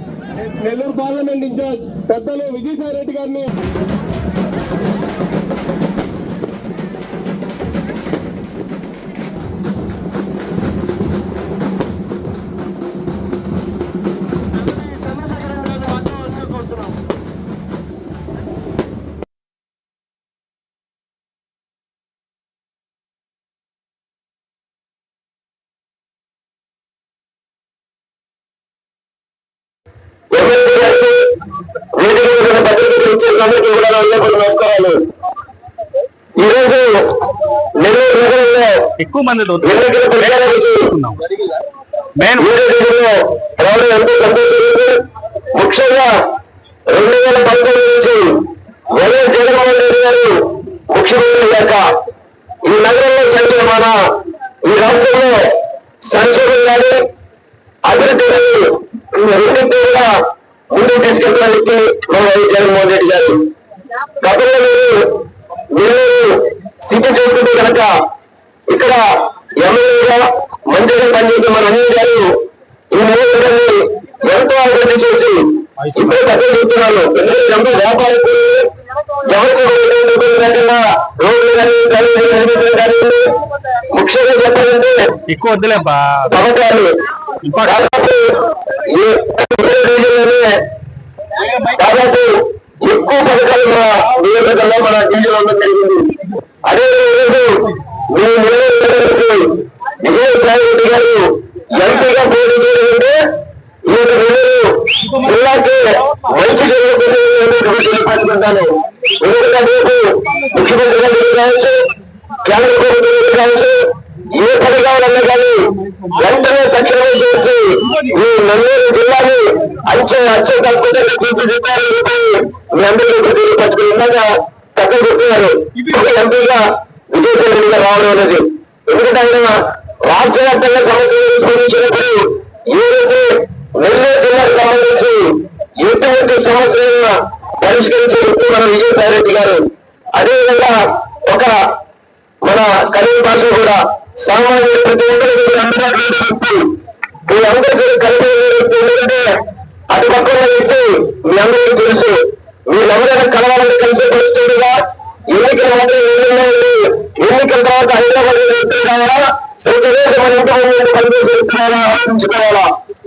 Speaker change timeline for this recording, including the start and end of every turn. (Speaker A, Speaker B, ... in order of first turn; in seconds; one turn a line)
Speaker A: 0.4-3.5
Speaker B: 30.3-35.1
Speaker B: 36.3-39.0
Speaker C: 39.0-39.8
Speaker B: 39.6-41.0
Speaker C: 40.8-41.2
Speaker C: 42.2-42.5
Speaker B: 42.4-46.3
Speaker B: 46.9-52.0
Speaker B: 52.6-57.1
Speaker B: 57.8-63.5
Speaker B: 64.1-68.0
Speaker B: 68.7-85.2
Speaker C: 75.8-76.2
Speaker C: 85.3-86.3
Speaker B: 86.2-90.7
Speaker C: 87.5-87.8
Speaker B: 91.6-141.8
Speaker B: 142.4-162.7